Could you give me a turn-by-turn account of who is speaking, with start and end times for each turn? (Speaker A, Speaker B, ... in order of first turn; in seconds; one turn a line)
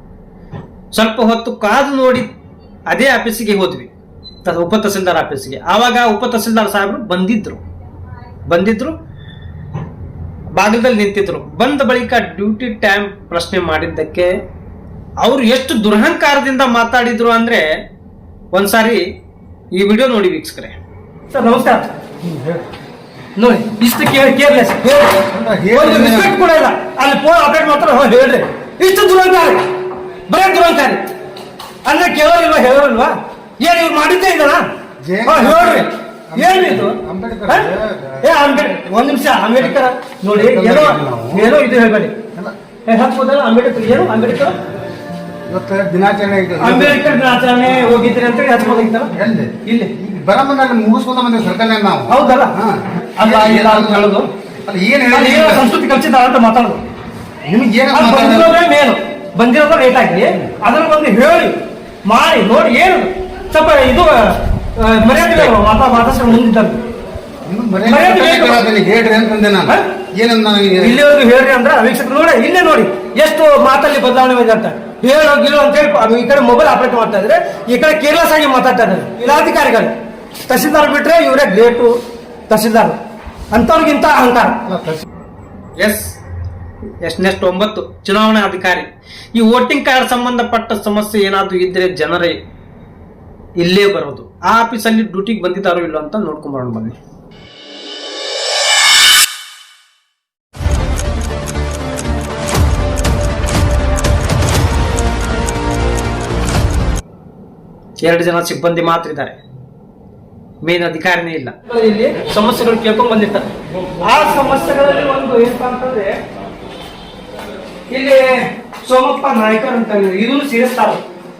Speaker A: 0.9-2.3
Speaker A: 2.9-3.9
Speaker A: 4.4-7.6
Speaker A: 8.5-8.9
Speaker A: 10.5-14.3
Speaker A: 15.2-17.8
Speaker A: 18.5-19.0
Speaker A: 19.7-20.7
Speaker B: 21.3-21.9
Speaker B: 23.4-29.6
Speaker C: 25.2-26.4
Speaker B: 30.3-31.1
Speaker B: 31.8-34.6
Speaker C: 35.0-38.2
Speaker B: 35.2-42.2
Speaker C: 40.3-41.5
Speaker B: 42.9-44.5
Speaker C: 45.5-47.0
Speaker B: 46.6-49.9
Speaker C: 49.1-55.6
Speaker B: 52.1-52.5
Speaker B: 53.2-54.3
Speaker B: 55.1-56.8
Speaker C: 57.5-58.5
Speaker B: 57.9-66.8
Speaker C: 67.5-71.0
Speaker B: 67.8-68.6
Speaker B: 70.8-79.9
Speaker B: 80.5-82.0
Speaker B: 82.5-83.0
Speaker B: 83.5-84.6
Speaker A: 85.8-86.2
Speaker A: 87.0-92.4
Speaker A: 93.6-97.0
Speaker A: 108.0-109.4
Speaker A: 110.6-111.5
Speaker B: 111.6-113.5
Speaker B: 114.0-116.2
Speaker B: 117.9-121.0